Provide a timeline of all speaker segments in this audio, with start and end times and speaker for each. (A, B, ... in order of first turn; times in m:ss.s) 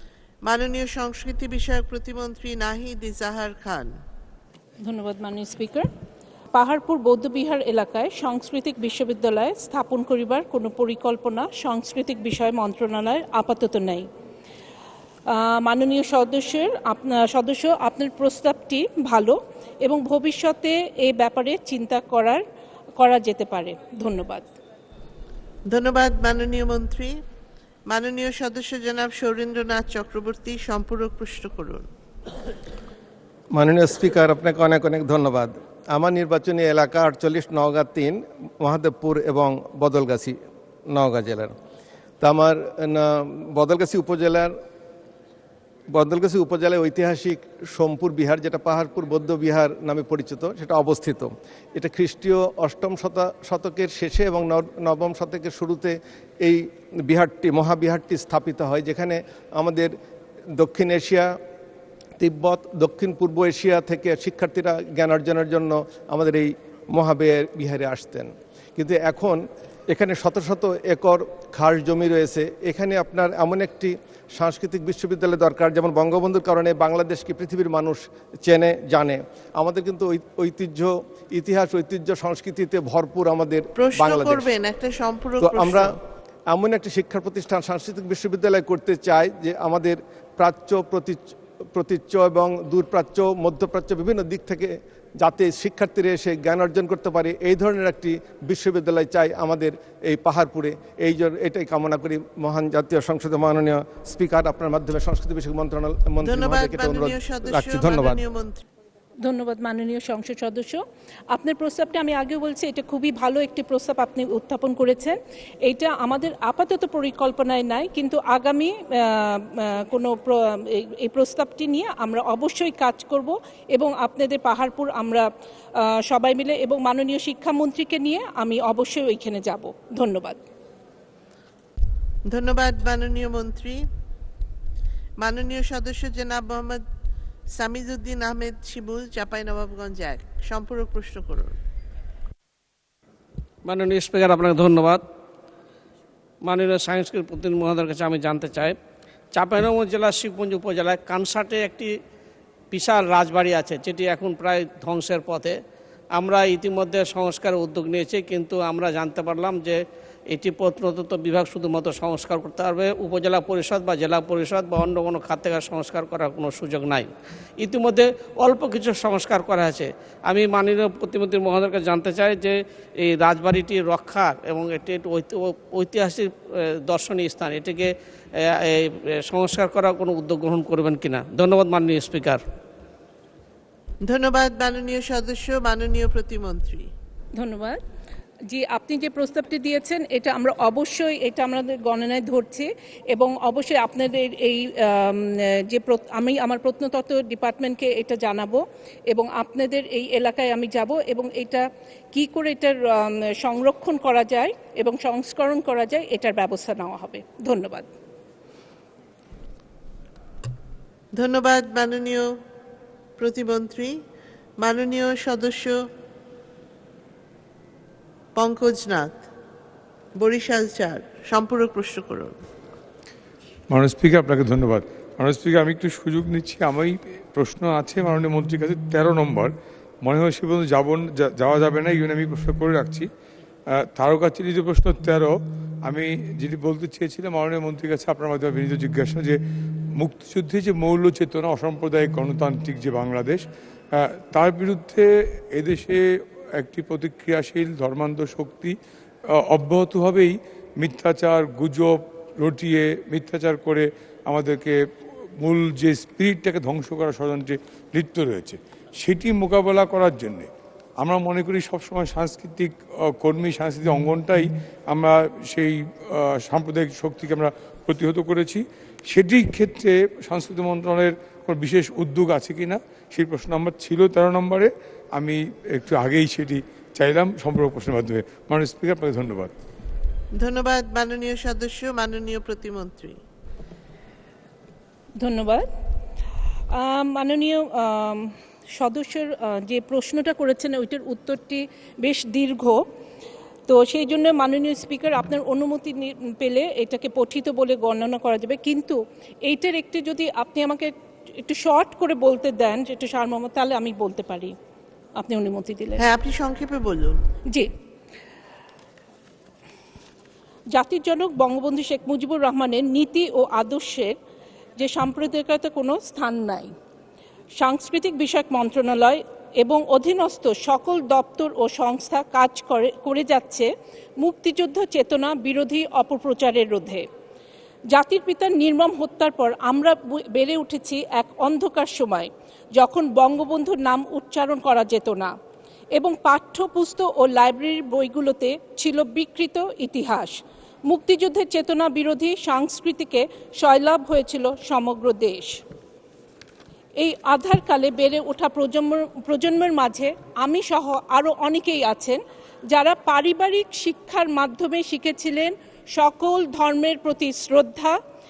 0:00.4-0:03.9 A
0:04.8-0:05.9 B
0:06.5-0:14.1 B
0:15.3-0:22.4 B
0:23.0-0:24.5 B
0:25.7-0:27.2 A
0:27.9-0:31.8 A
0:33.5-0:40.4 C
0:40.9-0:41.5 C
0:42.2-0:44.5 C
0:45.9-0:59.9 C
1:00.6-1:01.3 C
1:02.2-1:24.5 C
1:23.8-1:25.9 A
1:25.4-1:25.9 C
1:26.5-1:48.2 C
1:46.2-1:48.6 A
1:49.2-1:50.8 B
1:51.3-2:10.4 B
2:12.3-2:13.8 A
2:15.2-2:16.8 A
2:17.5-2:21.5 A
2:23.6-2:25.0 D
2:26.4-2:28.8 D
2:29.3-2:31.9 D
2:32.7-2:35.6 D
2:36.2-3:02.4 D
3:04.0-3:06.9 A
3:07.4-3:07.8 B
3:08.5-3:27.9 B
3:31.1-3:32.3 A
3:33.2-3:34.0 A
3:34.6-3:35.8 A
3:38.3-3:39.2 A
3:40.2-3:42.3 A
3:43.7-3:53.1 E
3:53.7-3:59.4 E
4:00.0-4:06.0 E
4:06.6-4:08.8 E
4:09.3-4:14.8 E
4:15.4-4:39.5 E
4:40.4-4:43.2 A
4:45.2-4:45.7 B
4:46.7-4:52.8 B
4:53.7-5:04.5 B
5:05.2-5:06.0 B
5:06.0-5:07.2 A
5:10.7-5:14.1 B
5:14.8-5:16.7 B
5:17.6-5:27.0 B
5:27.9-5:35.3 B
5:35.9-5:45.5 B
5:47.0-5:57.9 B